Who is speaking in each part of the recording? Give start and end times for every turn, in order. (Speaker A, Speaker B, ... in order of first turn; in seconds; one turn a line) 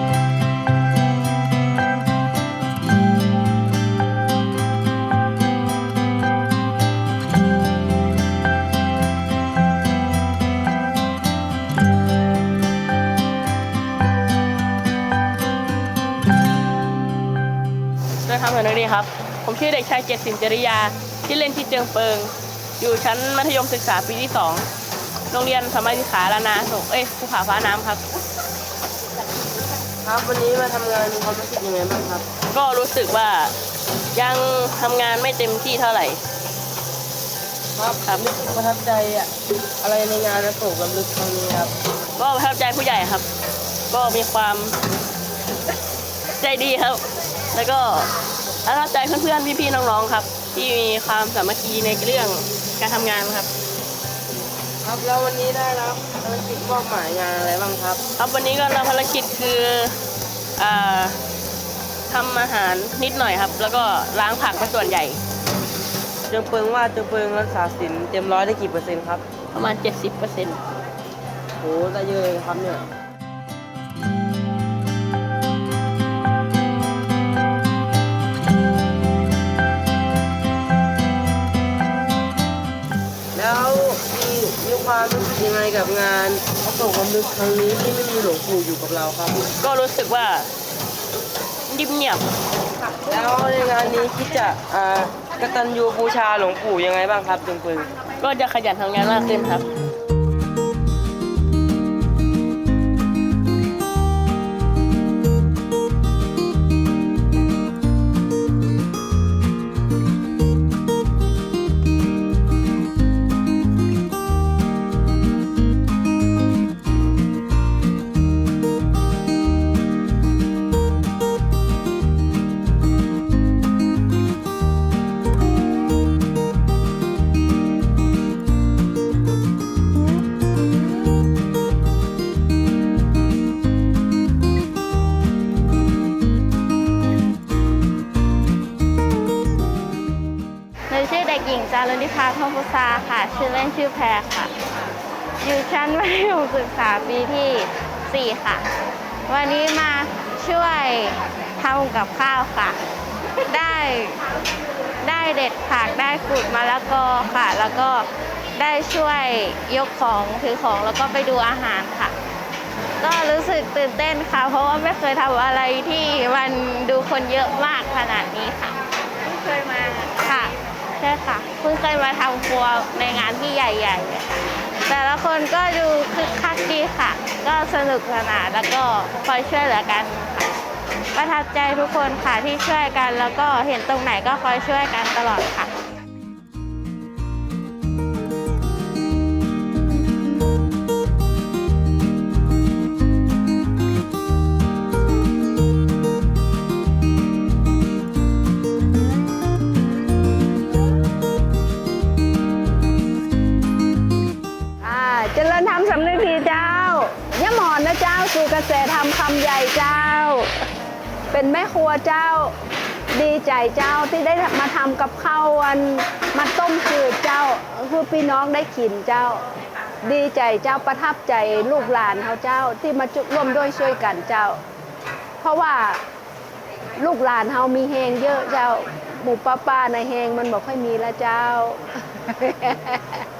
Speaker A: 18.3-24.7
Speaker A: 25.3-28.0
Speaker B: 30.0-32.3
Speaker A: 32.5-33.5
Speaker A: 34.1-36.2
Speaker B: 37.8-39.3
Speaker B: 39.8-41.7
Speaker A: 42.2-43.3
Speaker A: 43.9-44.7
Speaker A: 46.4-47.0
Speaker A: 47.5-48.1
Speaker A: 48.7-53.5
Speaker B: 54.8-58.0
Speaker A: 58.2-59.9
Speaker A: 60.6-61.1
Speaker A: 62.1-65.2
Speaker B: 66.3-69.2
Speaker A: 69.5-70.6
Speaker B: 71.6-72.8
Speaker B: 83.3-89.4
Speaker A: 89.6-90.4
Speaker A: 91.7-92.3
Speaker B: 93.1-97.9
Speaker A: 98.2-99.7
Speaker C: 140.9-144.5
Speaker C: 145.4-148.6
Speaker C: 149.3-152.8
Speaker C: 153.5-154.2
Speaker C: 155.0-158.1
Speaker C: 158.6-162.1
Speaker C: 163.0-180.5
Speaker C: 181.1-185.7
Speaker D: 204.8-210.5
Speaker D: 211.3-212.5
Speaker D: 213.1-219.4
Speaker D: 220.0-224.6
Speaker D: 225.4-226.0
Speaker D: 227.0-233.0